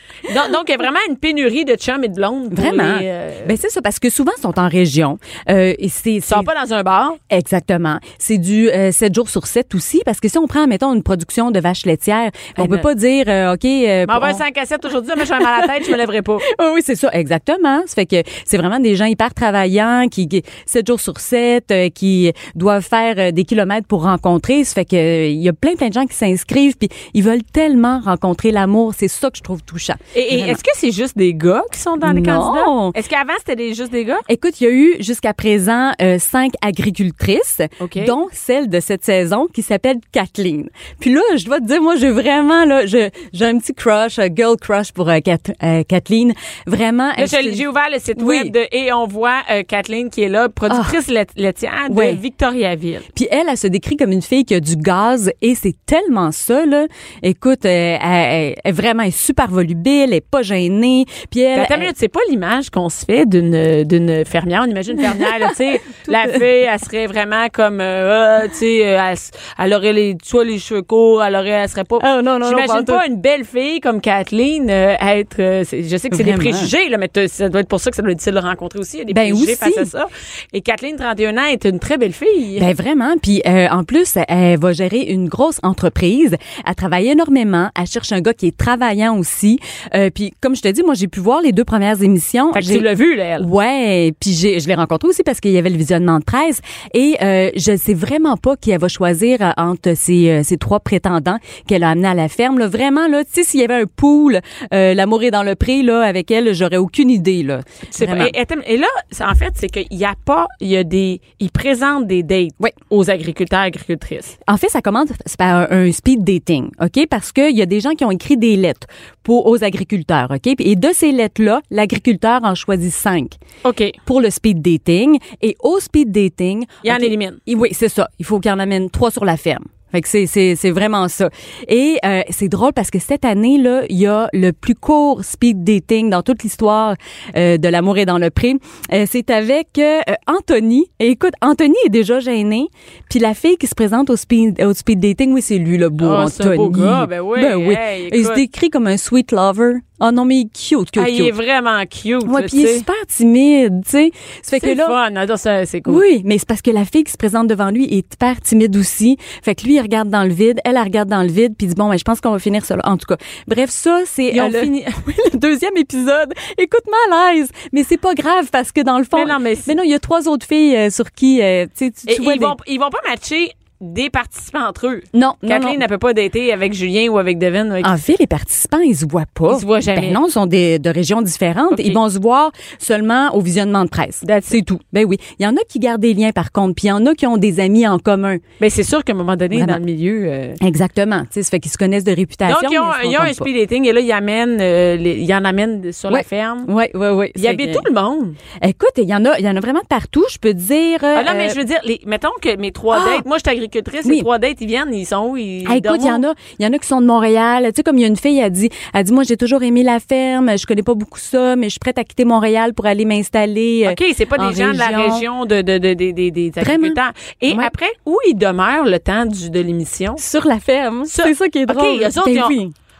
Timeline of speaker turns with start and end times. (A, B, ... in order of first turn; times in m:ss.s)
0:00.3-0:03.5 A
0:02.5-0:06.5 B
0:06.3-0:07.2 A
0:07.3-0:14.4 B
0:12.6-0:12.9 A
0:14.1-0:16.5 A
0:16.5-0:30.6 B
0:30.2-0:34.3 A
0:32.0-0:33.0 B
0:34.3-0:47.6 B
0:37.8-0:38.1 A
0:47.2-0:53.1 A
0:48.2-0:48.5 B
0:50.7-0:51.0 B
0:51.9-0:52.2 B
0:53.1-1:01.9 B
1:01.6-1:22.6 A
1:05.1-1:06.4 B
1:12.0-1:13.0 B
1:16.1-1:16.7 B
1:19.1-1:19.9 B
1:22.6-1:32.8 B
1:32.5-1:33.5 A
1:33.4-1:48.3 B
1:47.9-1:54.4 A
1:54.5-2:03.4 B
2:03.6-2:04.0 A
2:04.1-2:31.3 B
2:06.8-2:07.4 A
2:26.0-2:28.4 A
2:31.0-2:32.9 A
2:32.2-2:35.0 B
2:34.6-2:36.0 A
2:35.9-2:52.6 B
2:44.3-2:44.9 A
2:49.1-2:49.8 A
2:52.1-2:57.9 A
2:55.1-2:55.8 B
2:57.8-3:08.4 B
2:59.5-3:00.2 A
3:01.7-3:02.0 A
3:04.2-3:04.6 A
3:08.6-3:10.6 A
3:09.5-3:09.8 B
3:10.6-3:13.5 B
3:12.5-3:16.7 A
3:16.1-3:17.9 B
3:17.4-3:18.4 A
3:18.6-3:21.6 B
3:21.2-3:26.2 A
3:22.9-3:23.2 B
3:25.7-3:35.2 B
3:33.8-3:40.2 A
3:36.6-3:37.0 B
3:40.2-3:42.7 B
3:41.1-3:42.6 A